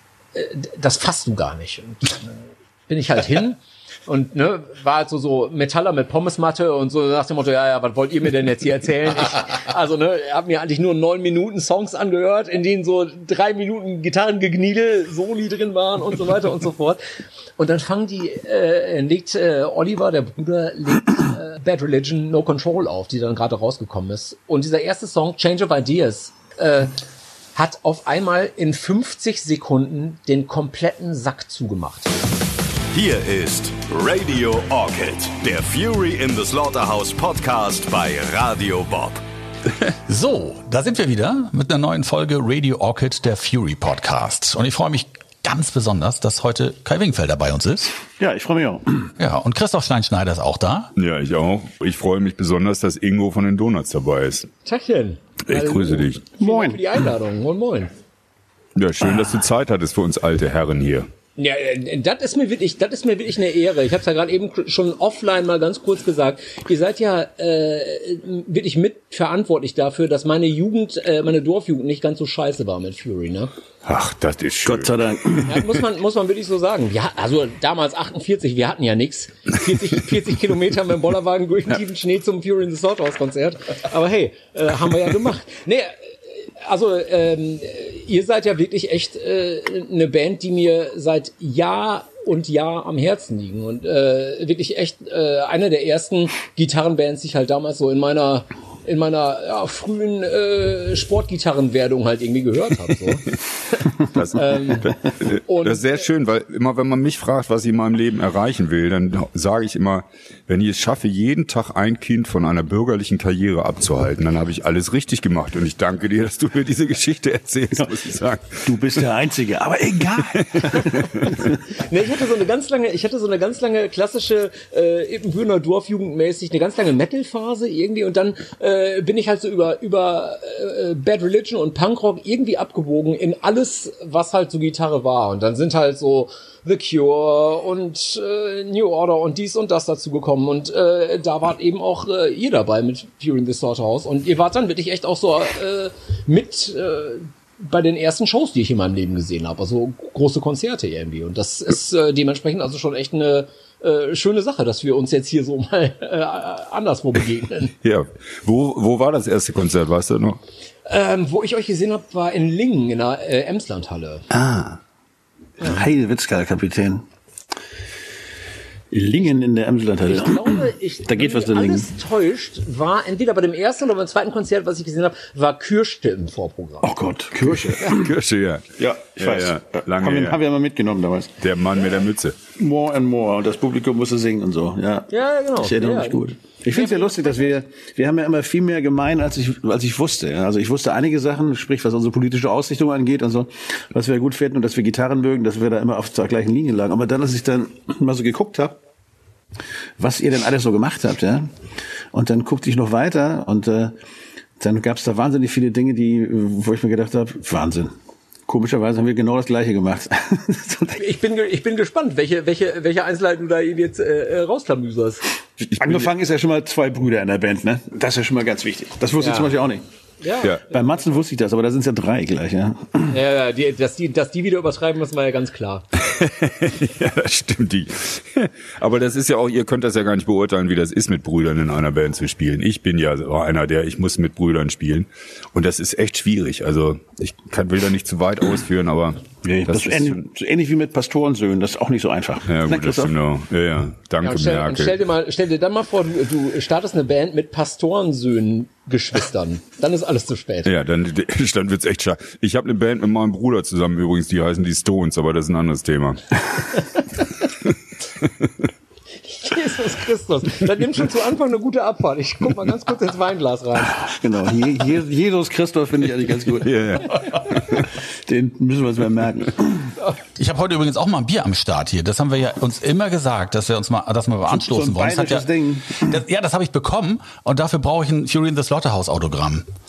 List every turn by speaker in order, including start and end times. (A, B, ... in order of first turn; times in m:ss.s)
0:00.3-0:02.3 A
0:02.9-0:17.0 A
0:17.6-0:27.0 A
0:27.5-0:32.1 A
0:32.9-0:39.2 B
0:40.1-0:48.0 C
0:48.2-0:49.1 D
0:49.2-0:50.9 C
0:51.0-0:54.5 E
0:54.6-0:57.9 A
0:55.5-0:56.2 E
0:56.4-0:56.8 D
0:58.8-1:01.1 E
1:01.4-1:13.5 A
1:13.8-1:14.9 E
1:14.6-1:15.6 D
1:15.5-1:25.9 A
1:26.6-1:46.1 A
1:44.0-1:59.0 E
1:58.6-2:01.5 D
2:00.4-2:01.4 E
2:01.7-2:37.7 A
2:37.8-2:40.4 E
2:40.9-2:44.3 A
2:44.3-2:44.8 D
2:45.6-2:47.0 D
2:48.9-2:51.9 D
2:50.0-2:56.9 A
2:56.8-2:58.1 D
2:57.9-3:00.4 E
2:58.8-3:01.4 D
3:01.4-3:02.4 E
3:02.6-3:18.8 D
3:05.1-3:07.5 A
3:20.0-3:21.5 D
3:22.1-3:23.9 D
3:24.6-3:27.9 D
3:28.5-3:31.0 D
3:31.0-3:35.2 A
3:35.7-3:36.1 E
3:35.8-3:39.8 D
3:39.2-3:39.5 A
3:40.2-3:40.8 A
3:40.7-3:43.2 D
3:43.1-3:45.8 A
3:46.0-4:00.2 E
3:59.4-4:03.1 D
4:02.5-4:05.0 E
4:04.2-4:10.7 A
4:10.6-4:16.4 E
4:19.3-4:24.0 A
4:23.9-4:27.2 D
4:26.6-4:27.8 E
4:27.7-4:29.9 D
4:30.4-4:35.5 C
4:34.5-4:36.2 D
4:36.0-4:39.6 C